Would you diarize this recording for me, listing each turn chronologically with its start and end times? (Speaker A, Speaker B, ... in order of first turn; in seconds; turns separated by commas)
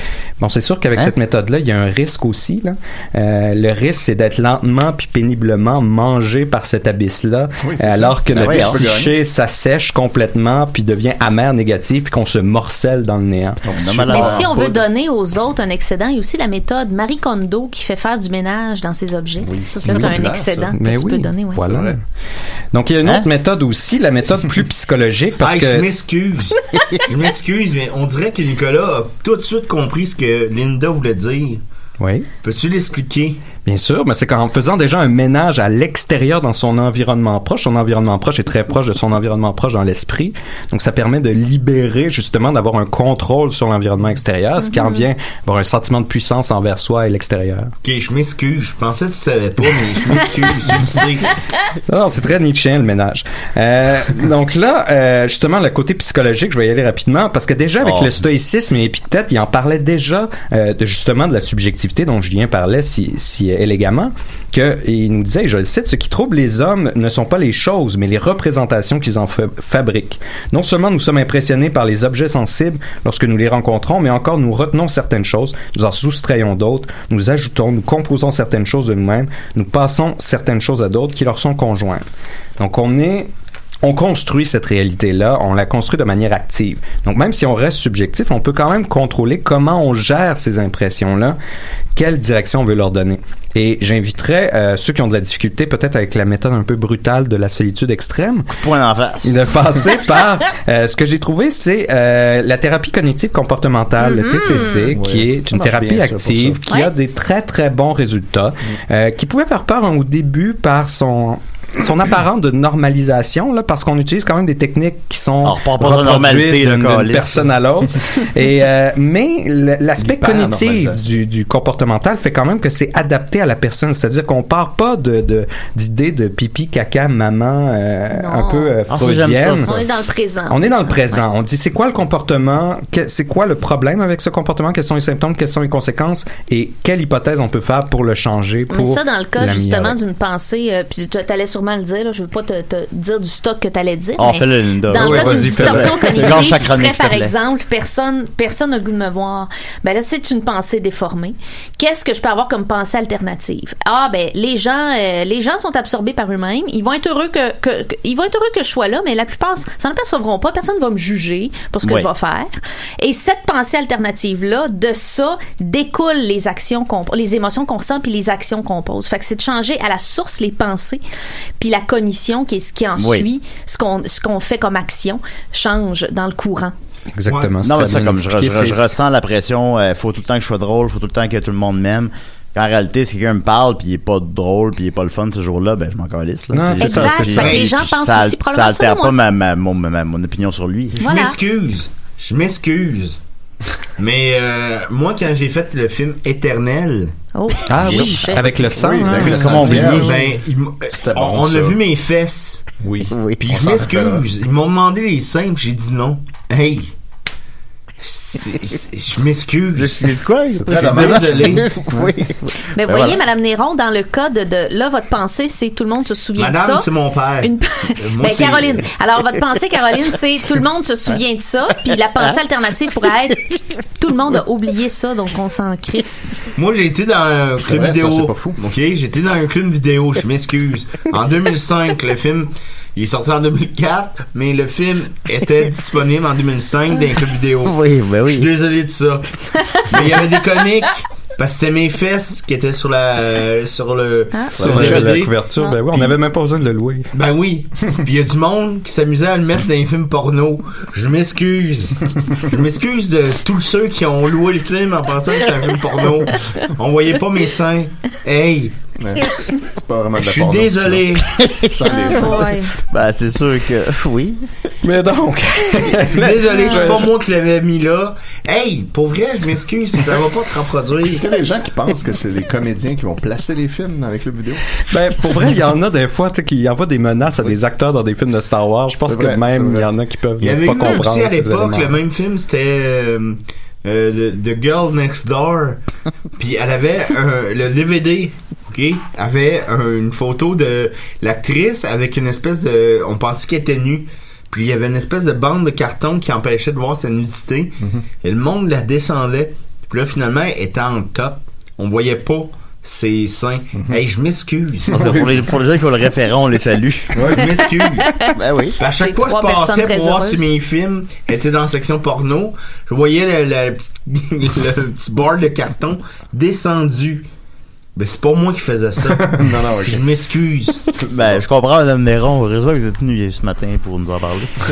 Speaker A: 0.4-13.6, Speaker B: 7.6-9.1, Speaker C: 8.3-8.9, Speaker B: 13.6-14.8, Speaker C: 13.8-14.5, Speaker D: 14.1-21.7, Speaker B: 19.4-20.7, Speaker A: 19.9-20.2, Speaker A: 20.8-21.9, Speaker B: 21.6-22.0, Speaker A: 22.7-25.9, Speaker E: 25.4-31.6, Speaker A: 32.0-32.3, Speaker E: 32.4-33.4, Speaker A: 33.6-47.7, Speaker D: 44.7-45.0, Speaker E: 47.8-51.3, Speaker A: 51.9-82.0, Speaker C: 57.8-58.1, Speaker A: 82.6-83.3, Speaker A: 83.8-91.4, Speaker A: 91.9-98.5, Speaker C: 98.5-99.3, Speaker A: 99.2-129.7, Speaker D: 104.1-104.8, Speaker B: 104.6-106.6, Speaker C: 115.4-117.5, Speaker B: 120.0-121.0, Speaker D: 128.1-128.8, Speaker C: 128.9-129.8, Speaker D: 129.6-131.2, Speaker A: 130.5-140.0, Speaker D: 138.7-171.0, Speaker C: 144.2-147.3, Speaker A: 144.9-146.6, Speaker D: 171.6-176.7, Speaker C: 173.0-173.2, Speaker A: 177.1-178.9, Speaker E: 177.2-177.6, Speaker C: 177.6-191.0, Speaker A: 186.5-187.7, Speaker D: 186.8-189.2, Speaker E: 187.4-187.7, Speaker E: 191.0-193.2, Speaker D: 191.0-191.4, Speaker E: 194.0-197.1, Speaker D: 197.3-198.5, Speaker A: 197.7-200.0, Speaker C: 198.6-200.2, Speaker B: 198.8-200.4, Speaker E: 199.9-202.7, Speaker B: 200.9-201.8, Speaker B: 202.8-204.2, Speaker C: 203.1-203.4, Speaker E: 203.4-206.9, Speaker E: 208.0-210.2, Speaker C: 209.8-213.2, Speaker B: 210.6-212.2, Speaker E: 210.7-211.7, Speaker D: 212.7-226.3, Speaker E: 216.3-218.9, Speaker E: 226.5-245.3, Speaker B: 227.6-228.6, Speaker C: 237.6-238.5, Speaker D: 244.3-244.7, Speaker A: 244.5-247.1, Speaker E: 245.9-246.2, Speaker E: 247.1-258.8, Speaker B: 259.0-262.6, Speaker E: 260.2-261.3, Speaker C: 261.3-262.4, Speaker D: 261.9-262.7, Speaker C: 262.9-264.4, Speaker A: 264.8-267.1, Speaker E: 266.0-271.2, Speaker D: 266.5-266.8, Speaker B: 271.0-274.6, Speaker A: 274.9-281.9, Speaker B: 279.0-279.9, Speaker E: 280.4-285.8, Speaker E: 286.4-305.3, Speaker B: 304.9-305.3, Speaker C: 304.9-307.3, Speaker B: 307.1-307.5, Speaker E: 307.3-317.3, Speaker D: 307.6-310.4, Speaker C: 308.3-308.8, Speaker E: 317.9-319.3, Speaker B: 319.2-320.1, Speaker E: 319.8-320.9, Speaker B: 320.8-321.5, Speaker C: 321.1-324.5